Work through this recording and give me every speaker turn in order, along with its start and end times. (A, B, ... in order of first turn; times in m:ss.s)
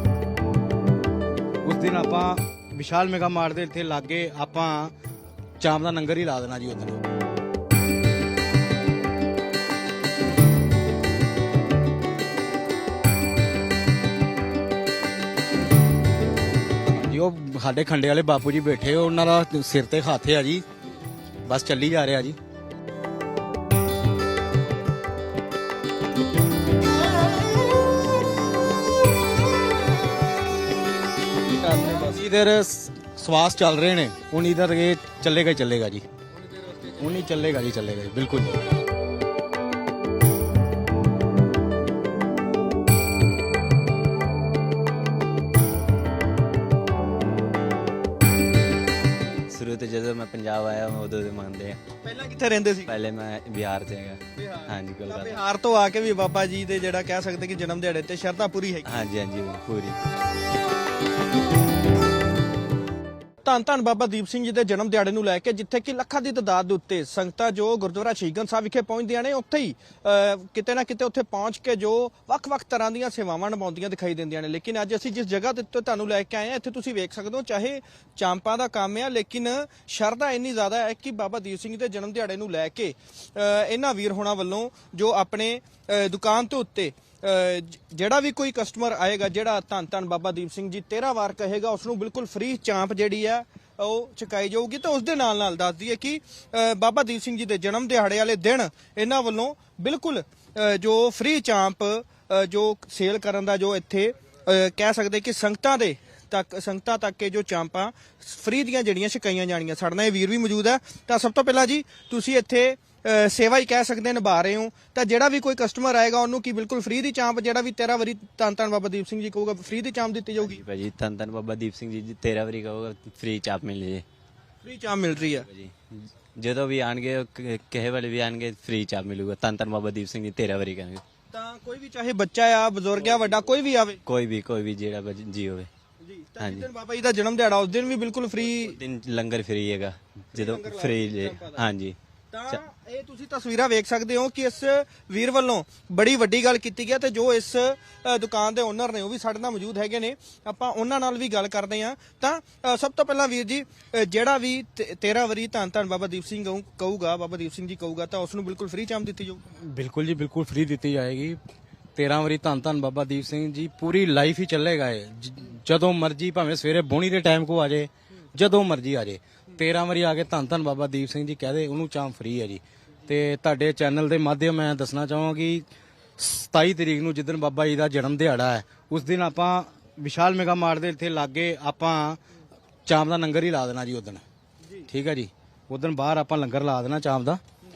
0:01.6-0:04.9 A
0:05.6-0:07.0 A
0:16.9-0:20.6 A
0:21.4-0:22.4 A
0:31.4-0:32.3 B
0:32.1-0:36.0 A
0:36.4-0:37.3 B
0:37.0-0:38.6 A
0:49.4-0:51.8 C
0:52.0-0:52.9 B
0:52.8-0:55.4 C
0:54.4-0:59.0 B
0:58.8-1:00.0 C
1:03.4-2:00.6 B
2:00.4-2:04.0 C
2:04.6-2:05.5 B
2:05.1-2:11.0 C
2:11.3-2:14.0 B
2:13.0-2:15.7 C
2:16.0-2:18.8 B
2:16.4-2:16.7 C
2:18.5-2:22.0 C
2:20.3-2:21.6 B
2:22.3-2:39.4 B
2:39.6-2:41.4 A
2:42.0-2:55.7 A
2:56.2-3:02.2 A
3:02.8-3:04.2 A
3:04.6-3:04.9 B
3:04.9-3:07.4 A